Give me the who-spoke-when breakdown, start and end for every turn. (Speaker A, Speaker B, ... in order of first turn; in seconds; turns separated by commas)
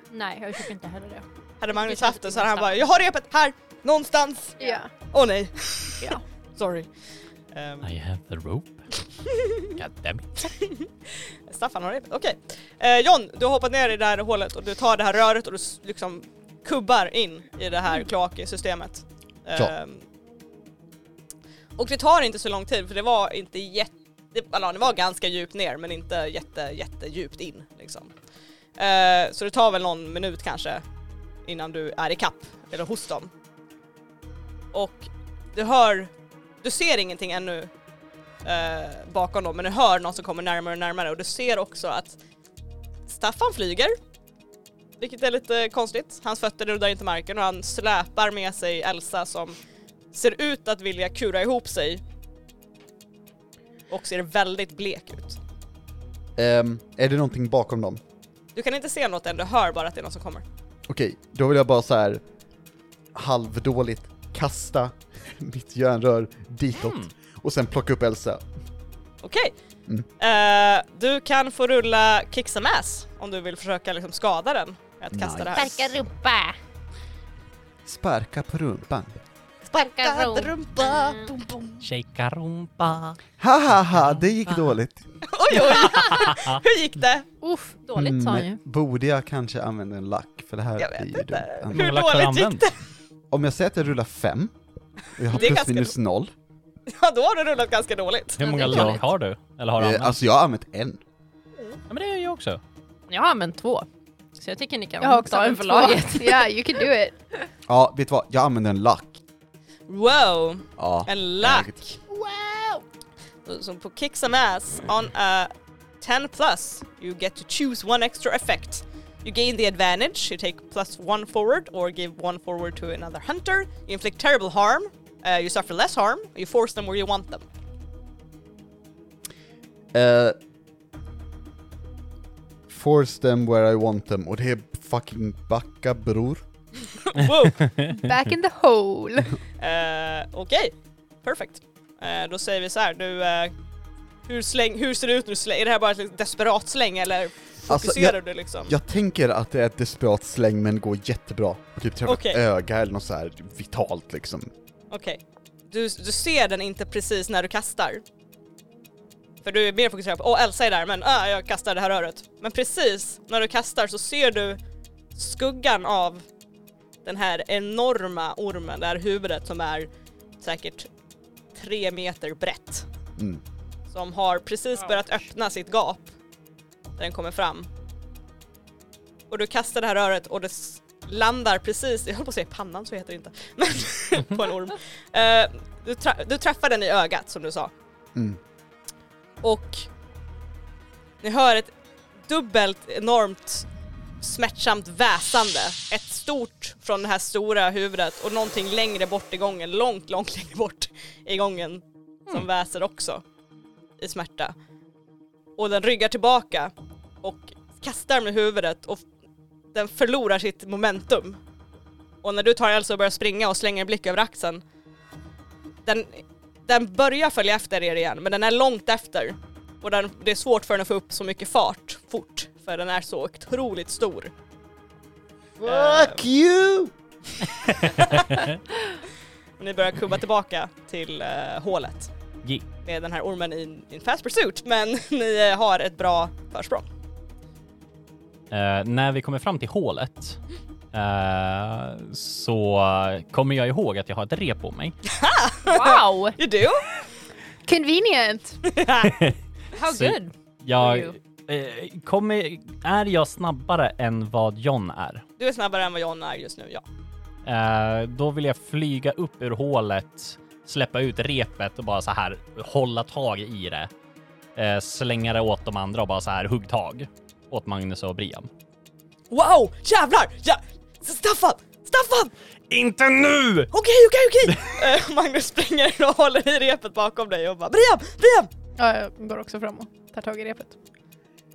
Speaker A: 0.1-2.9, Speaker B: 1.6-6.9, Speaker C: 4.6-4.9, Speaker B: 7.5-7.9, Speaker D: 7.8-8.9, Speaker D: 9.7-10.5, Speaker B: 10.4-20.0, Speaker B: 21.8-28.1, Speaker B: 28.8-30.8, Speaker B: 31.4-33.3, Speaker B: 34.7-37.7, Speaker B: 38.4-42.2, Speaker B: 43.1-43.9, Speaker B: 45.0-49.5, Speaker B: 50.1-52.0, Speaker B: 53.9-55.4, Speaker E: 56.4-58.0, Speaker B: 58.5-60.4, Speaker E: 60.9-62.2, Speaker E: 63.1-68.4, Speaker D: 66.8-67.1, Speaker B: 69.2-69.5, Speaker B: 70.2-75.9, Speaker E: 75.1-75.8, Speaker A: 75.5-76.6, Speaker E: 77.8-79.1, Speaker B: 79.7-81.8, Speaker A: 79.8-81.3, Speaker D: 81.8-83.2, Speaker E: 83.4-85.0, Speaker D: 83.9-84.7, Speaker B: 85.3-87.3, Speaker D: 85.5-86.6, Speaker A: 87.4-88.6, Speaker E: 87.9-91.9, Speaker B: 90.8-92.8, Speaker D: 91.7-92.7, Speaker E: 93.3-94.5, Speaker E: 95.2-96.3, Speaker B: 95.3-95.9, Speaker B: 96.9-98.9, Speaker D: 98.4-100.2, Speaker A: 98.4-99.1, Speaker E: 99.8-101.0, Speaker D: 101.9-102.6, Speaker A: 103.1-106.5, Speaker C: 105.0-107.2, Speaker E: 107.7-109.2, Speaker B: 109.9-112.0, Speaker E: 110.8-112.5, Speaker B: 113.4-127.5, Speaker E: 129.9-130.4, Speaker E: 132.7-136.4, Speaker B: 137.1-137.7, Speaker D: 137.6-137.9, Speaker C: 137.8-139.4, Speaker B: 139.6-143.5, Speaker B: 144.2-148.7, Speaker E: 147.7-154.5, Speaker B: 152.1-152.4, Speaker B: 154.9-158.0, Speaker B: 159.4-164.6, Speaker B: 165.1-166.2, Speaker B: 167.0-170.9, Speaker B: 171.5-172.9, Speaker E: 173.2-173.4, Speaker B: 173.9-176.1, Speaker B: 177.0-177.7, Speaker B: 179.3-187.7, Speaker B: 189.4-189.9, Speaker B: 191.2-191.7, Speaker B: 192.2-193.7, Speaker B: 194.2-203.2, Speaker B: 204.0-204.5, Speaker B: 205.6-209.1, Speaker B: 209.7-211.4, Speaker B: 212.2-214.6, Speaker B: 215.8-224.3, Speaker E: 225.6-226.9, Speaker B: 225.6-226.2, Speaker D: 227.7-228.5, Speaker B: 228.0-228.4, Speaker B: 229.6-232.1, Speaker B: 232.8-236.9, Speaker D: 238.5-240.4, Speaker D: 240.9-245.0, Speaker B: 245.1-246.9, Speaker A: 245.7-246.4, Speaker C: 247.7-248.6, Speaker B: 248.7-249.1, Speaker D: 249.0-255.2, Speaker A: 249.7-251.2, Speaker B: 255.4-256.9, Speaker D: 257.4-263.9, Speaker D: 264.6-268.5, Speaker B: 269.3-272.3, Speaker D: 272.7-273.7, Speaker B: 273.7-278.5, Speaker C: 278.8-280.8